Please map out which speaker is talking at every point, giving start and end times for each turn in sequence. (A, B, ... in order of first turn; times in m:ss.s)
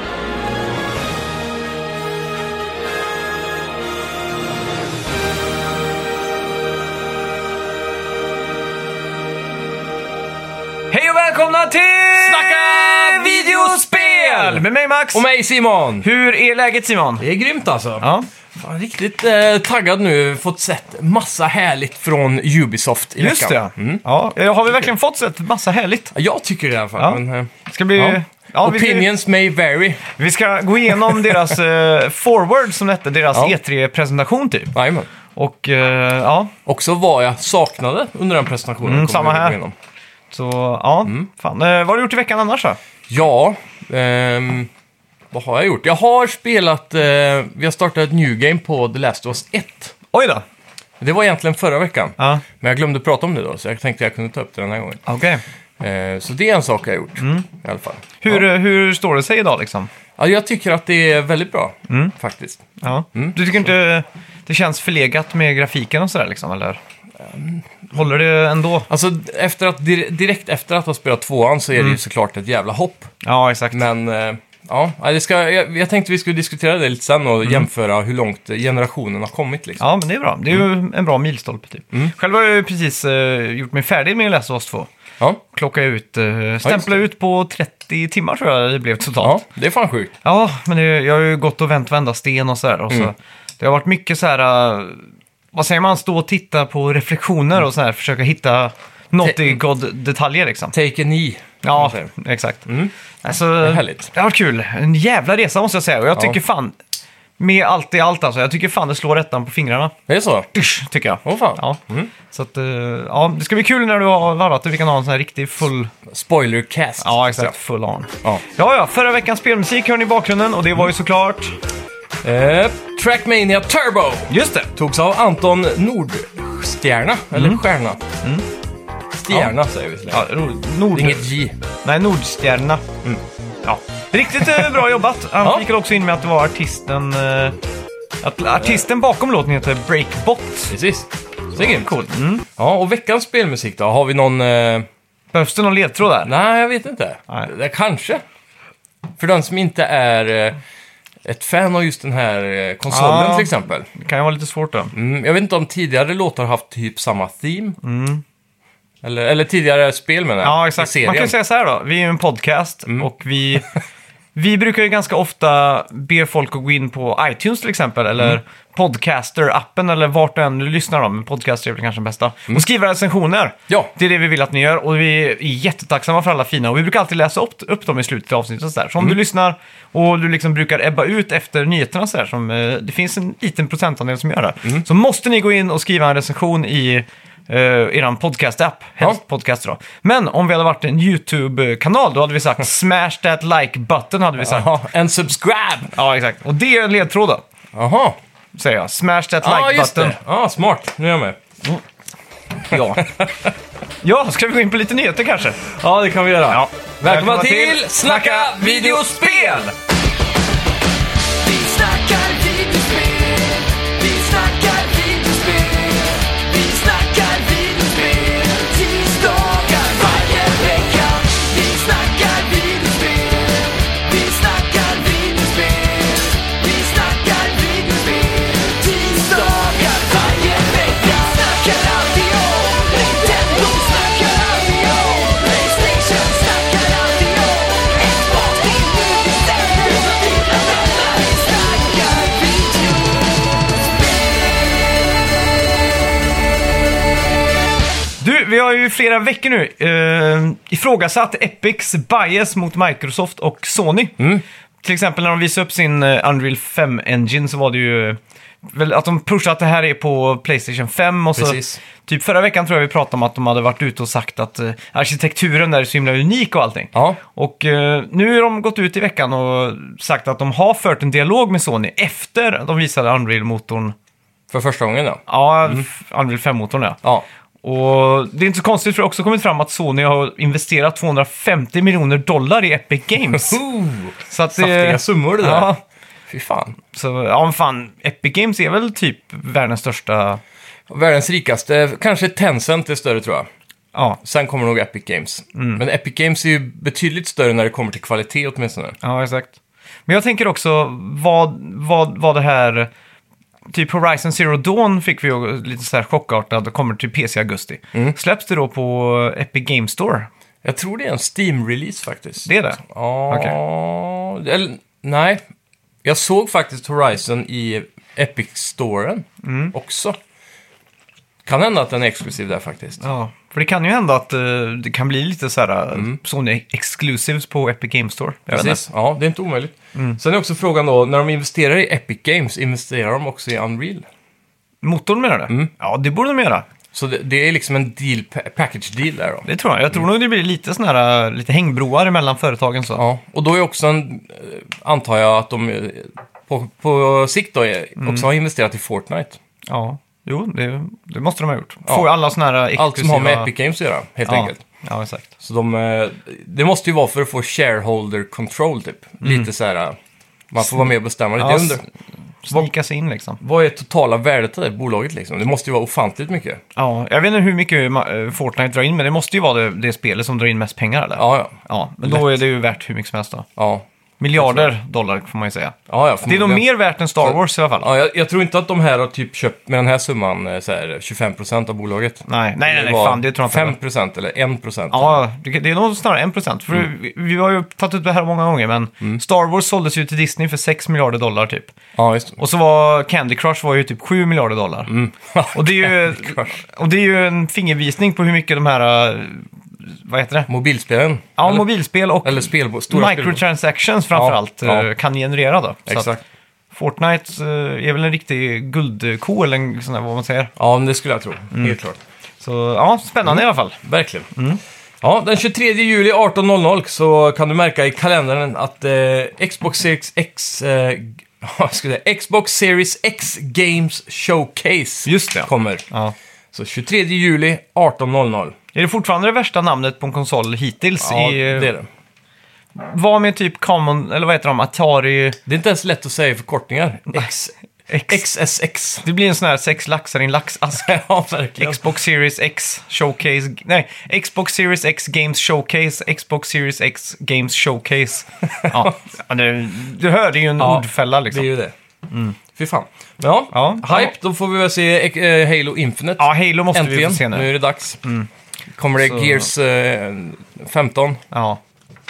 0:10.9-0:15.2 A
0:12.1-0:16.1 B
0:16.0-0:17.2 A
0:17.2-0:24.0 B
0:18.0-0:18.3 A
0:23.2-0:26.1 A
0:26.1-0:30.0 B
0:27.0-0:29.1 A
0:30.1-0:34.7 A
0:34.7-0:35.1 B
0:35.3-0:36.5 A
0:36.6-0:39.7 B
0:38.8-0:39.6 A
0:40.3-0:42.8 A
0:43.1-0:44.7 B
0:45.3-0:49.9 B
0:50.1-0:50.4 A
0:51.0-0:55.0 B
0:52.2-0:52.4 A
0:55.0-0:55.4 A
0:55.8-0:58.4 B
0:57.2-0:57.4 A
0:58.2-0:59.9 A
1:00.2-1:02.6 B
1:01.9-1:02.1 A
1:02.8-1:06.8 A
1:03.1-1:03.6 B
1:07.2-1:07.6 B
1:07.9-1:08.9 A
1:08.9-1:13.1 B
1:13.2-1:13.8 A
1:13.7-1:19.8 B
1:19.8-1:24.9 A
1:25.5-1:29.4 A
1:26.6-1:27.0 B
1:29.2-1:30.1 B
1:30.2-1:40.7 A
1:39.2-1:39.6 B
1:40.7-1:42.1 B
1:41.6-1:42.7 A
1:42.6-1:42.9 B
1:43.2-1:46.8 A
1:43.6-1:44.1 B
1:47.4-1:49.9 A
1:50.1-1:50.5 B
1:50.5-1:51.8 A
1:51.2-1:52.1 B
1:52.3-1:55.9 A
1:56.1-1:57.5 B
1:57.0-2:01.6 A
2:02.2-2:08.0 B
2:04.3-2:04.7 A
2:07.3-2:07.6 A
2:09.2-2:10.3 B
2:10.1-2:11.3 A
2:10.9-2:11.5 B
2:11.8-2:12.8 A
2:13.6-2:17.6 A
2:18.2-2:20.7 A
2:20.7-2:22.0 B
2:21.6-2:22.4 A
2:22.6-2:24.9 B
2:25.3-2:26.3 A
2:26.2-2:28.2 B
2:29.2-2:30.6 B
2:31.2-2:33.9 B
2:32.9-2:34.9 A
2:34.9-2:37.8 B
2:37.8-2:38.2 A
2:39.0-2:41.3 B
2:40.4-2:43.7 A
2:44.3-3:14.7 A
3:14.4-3:15.9 B
3:15.9-3:17.4 A
3:17.7-3:18.2 B
3:18.5-3:20.2 A
3:19.4-3:21.4 B
3:22.6-3:23.1 A
3:23.0-3:23.5 B
3:24.0-3:25.6 A
3:25.6-3:29.7 B
3:26.5-3:29.7 A
3:31.4-4:03.3 C
4:04.0-4:04.8 C
4:08.2-4:14.2 A
4:14.8-4:33.9 A
4:21.4-4:21.8 B
4:26.9-4:27.2 B
4:34.5-4:35.8 B
4:35.3-4:37.0 A
4:37.6-4:43.6 A
4:43.3-4:45.7 B
4:44.3-4:45.8 A
4:46.3-4:46.8 B
4:46.9-4:50.4 A
4:50.9-4:53.5 B
4:53.9-4:54.2 A
4:54.2-4:59.0 B
4:55.5-4:55.8 A
4:59.0-4:59.6 A
5:00.1-5:02.9 A
5:03.7-5:10.3 A
5:10.6-5:15.4 B
5:12.4-5:13.6 A
5:16.0-5:20.2 B
5:19.4-5:19.7 A
5:21.4-5:23.0 B
5:23.0-5:28.8 A
5:28.5-5:34.0 B
5:34.8-5:36.6 A
5:36.9-5:39.4 B
5:39.4-5:43.0 A
5:43.0-5:49.4 B
5:48.0-5:48.3 A
5:49.7-5:53.5 A
5:52.7-5:54.6 B
5:54.2-5:55.3 A
5:55.4-6:00.0 B
5:59.2-5:59.5 A
6:00.5-6:01.8 B
6:01.4-6:01.9 A
6:02.4-6:03.4 A
6:03.4-6:06.6 B
6:06.8-6:13.5 A
6:11.2-6:12.3 B
6:13.6-6:13.8 B
6:14.2-6:17.9 A
6:14.4-6:14.7 B
6:15.9-6:16.6 B
6:17.2-6:25.2 B
6:22.3-6:23.8 A
6:24.9-6:31.7 A
6:32.0-6:32.4 B
6:32.4-6:34.9 A
6:34.9-6:36.6 B
6:35.5-6:40.5 A
6:40.5-6:41.7 B
6:41.4-6:46.2 A
6:42.2-6:43.4 B
6:44.1-6:44.9 B
6:45.9-6:46.2 B
6:46.7-6:50.5 A
6:50.6-6:52.0 B
6:51.5-6:51.8 A
6:52.4-6:53.8 A
6:53.2-6:54.3 B
6:54.3-6:54.6 A
6:55.0-7:05.8 B
7:05.0-7:06.1 A
7:06.5-7:08.5 B
7:08.7-7:11.7 A
7:11.0-7:11.9 B
7:12.8-7:15.4 A
7:15.4-7:17.5 B
7:17.9-7:18.2 A
7:18.1-7:19.0 B
7:19.0-7:20.9 A
7:20.7-7:21.8 B
7:21.6-7:31.5 A
7:28.6-7:28.9 B
7:30.6-7:31.7 B
7:32.1-7:32.4 A
7:32.5-7:38.0 B
7:33.5-7:34.1 A
7:36.2-7:37.5 A
7:38.0-7:38.3 A
7:38.7-7:41.2 B
7:39.0-7:39.5 A
7:41.3-7:41.6 A